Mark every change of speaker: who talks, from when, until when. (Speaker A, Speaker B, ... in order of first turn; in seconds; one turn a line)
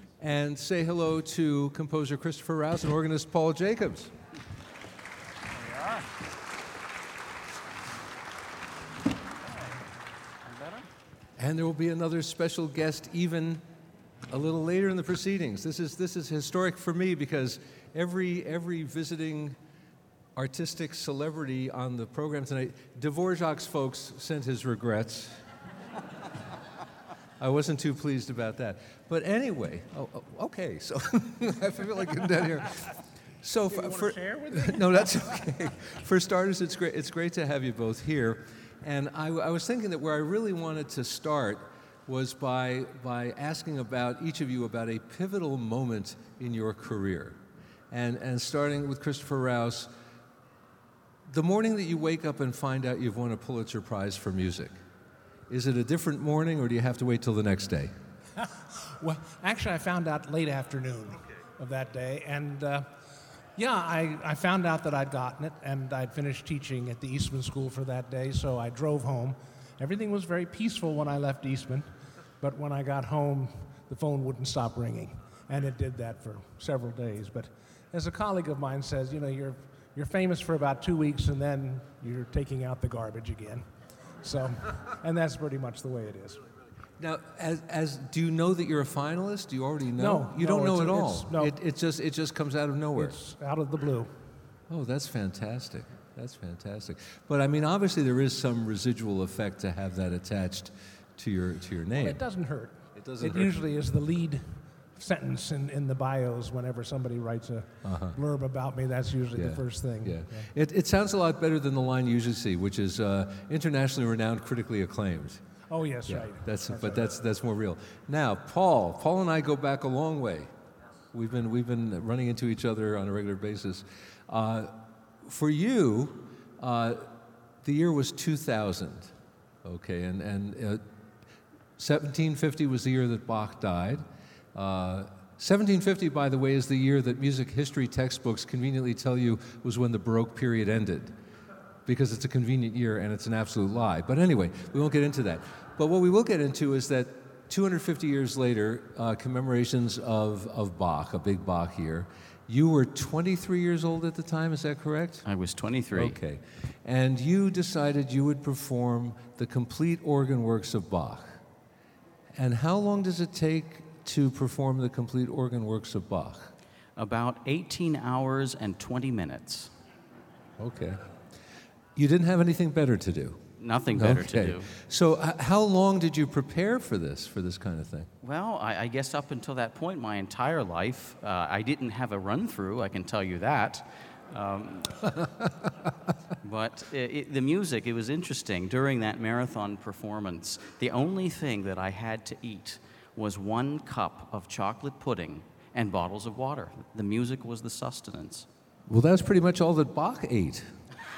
Speaker A: 0.2-4.1
Speaker B: 5.6-6.1
Speaker B: 10.5-10.8
Speaker A: 11.4-13.6
Speaker A: 14.3-19.6
Speaker A: 20.4-25.4
Speaker A: 27.4-47.4
Speaker C: 33.7-35.3
Speaker A: 47.9-49.9
Speaker A: 51.3-54.7
Speaker A: 55.5-57.9
Speaker C: 58.4-62.9
Speaker C: 63.6-71.9
Speaker C: 72.4-83.7
Speaker C: 84.2-86.4
Speaker A: 87.0-93.2
Speaker C: 90.0-91.6
Speaker C: 93.0-94.2
Speaker A: 94.7-102.2
Speaker C: 101.9-110.5
Speaker A: 103.0-103.5
Speaker A: 107.8-108.2
Speaker A: 109.3-115.4
Speaker C: 115.7-117.1
Speaker A: 116.1-120.5
Speaker A: 121.1-129.1
Speaker A: 129.6-130.8
Speaker A: 131.8-141.2
Speaker A: 141.9-155.3
Speaker B: 155.2-156.2
Speaker A: 155.9-161.4
Speaker A: 162.3-166.5
Speaker B: 167.0-169.7
Speaker A: 170.6-171.0
Speaker A: 172.0-173.4
Speaker B: 173.6-174.7
Speaker A: 173.9-178.1
Speaker B: 178.2-185.1
Speaker A: 185.2-185.5
Speaker B: 186.4-198.5
Speaker A: 198.9-200.8